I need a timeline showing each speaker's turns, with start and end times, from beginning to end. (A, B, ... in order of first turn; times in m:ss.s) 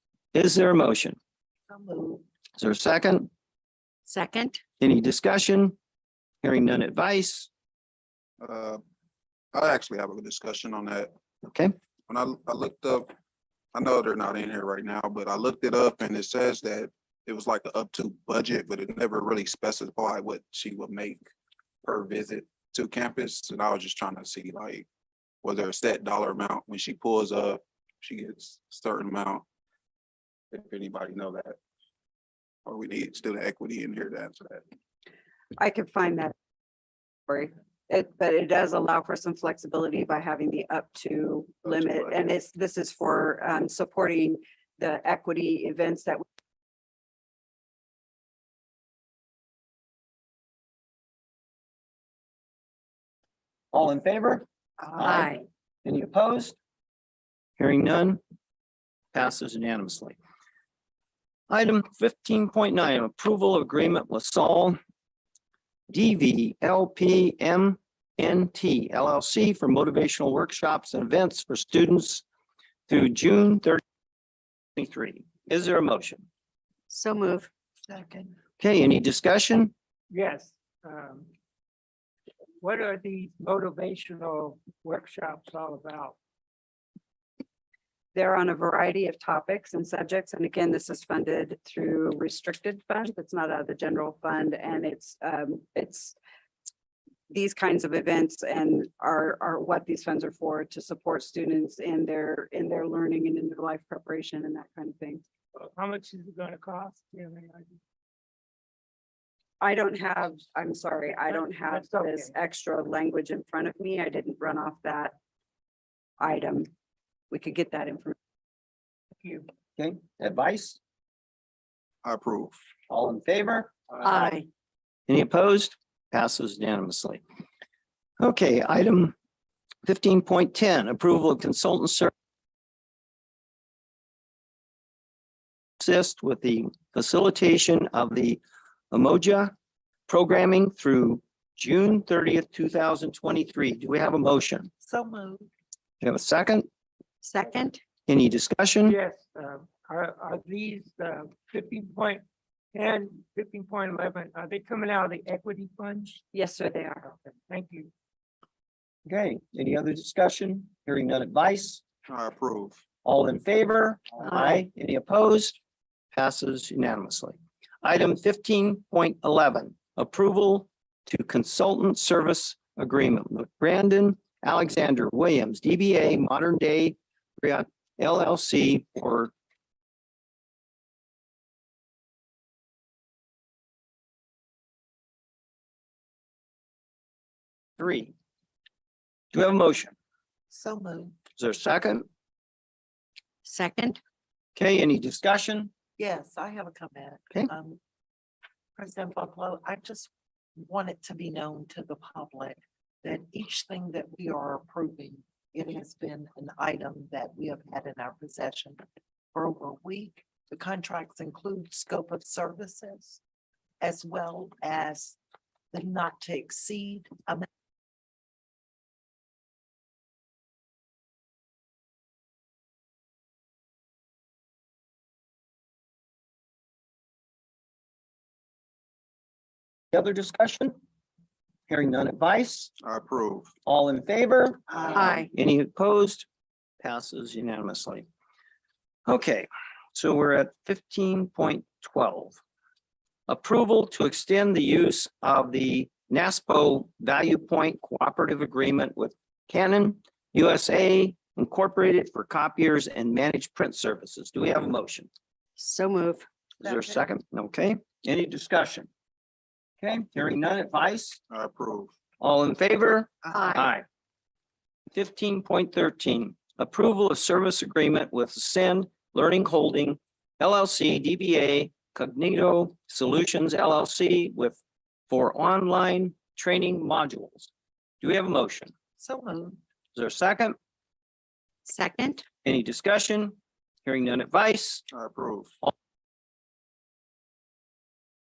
0:00.3-0:01.2 A
0:01.7-0:02.2 B
0:02.6-0:03.3 A
0:04.1-0:04.6 C
0:04.8-0:05.7 A
0:06.4-0:07.5 A
0:08.4-0:08.8 D
0:09.5-0:11.1 D
0:11.4-0:11.7 A
0:12.1-0:13.1 D
0:13.7-0:21.2 D
0:21.8-0:24.8 D
0:25.4-0:29.4 D
0:30.5-0:31.6 D
0:32.6-0:34.6 D
0:35.6-0:36.3 E
0:37.3-0:46.2 E
0:41.6-0:42.2 D
0:53.7-0:54.4 A
0:55.0-0:55.3 A
0:55.0-0:55.4 C
0:55.8-0:56.6 A
0:57.6-0:58.2 A
0:59.1-1:00.2 A
1:01.5-1:04.8 A
1:05.9-1:12.2 A
1:12.9-1:13.8 A
1:14.8-1:16.3 A
1:16.9-1:17.5 C
1:17.9-1:18.3 B
1:18.6-1:19.7 A
1:20.1-1:21.3 F
1:22.6-1:26.2 F
1:28.1-1:36.2 E
1:37.3-1:45.2 E
1:45.6-1:47.7 F
1:49.6-1:55.1 E
1:51.2-1:52.3 F
1:56.2-1:56.7 E
1:57.3-1:58.2 E
1:59.2-1:59.4 F
1:59.8-2:00.8 A
2:02.0-2:02.6 D
2:02.9-2:03.7 A
2:04.0-2:04.4 C
2:05.1-2:07.2 A
2:08.2-2:09.1 A
2:09.8-2:12.1 A
2:15.8-2:18.4 A
2:18.9-2:19.5 A
2:20.1-2:24.7 A
2:24.8-2:25.5 B
2:26.0-2:26.7 A
2:27.2-2:27.8 C
2:28.1-2:29.0 A
2:28.8-2:32.2 F
2:32.7-2:36.2 F
2:36.3-2:37.1 E
2:37.5-2:37.9 F
2:39.0-2:41.8 A
2:42.1-2:42.8 D
2:43.0-2:45.6 A
2:46.1-2:59.3 A
3:07.8-3:08.1 A
3:09.3-3:09.9 A
3:10.5-3:11.2 B
3:11.4-3:12.0 A
3:13.4-3:14.0 C
3:14.6-3:15.7 A
3:16.0-3:17.8 B
3:18.8-3:28.8 B
3:29.3-3:33.2 B
3:33.8-3:35.2 B
3:35.7-3:37.5 B
3:49.9-3:50.8 A
3:51.7-3:52.7 A
3:52.8-3:53.5 D
3:53.6-3:56.2 A
3:54.7-3:55.0 B
3:54.9-3:55.3 C
3:56.8-3:58.0 A
3:59.0-4:02.4 A
4:03.3-4:15.1 A
4:15.6-4:16.2 C
4:16.6-4:18.9 A
4:16.6-4:17.0 B
4:19.8-4:21.2 A
4:21.3-4:21.9 D
4:22.2-4:23.8 A
4:23.3-4:23.7 C
4:24.9-4:34.6 A
4:35.1-4:37.5 A
4:38.0-4:38.7 A
4:39.0-4:39.6 B
4:39.9-4:40.6 A
4:41.6-4:42.2 C
4:42.4-4:44.8 A
4:44.9-4:45.5 D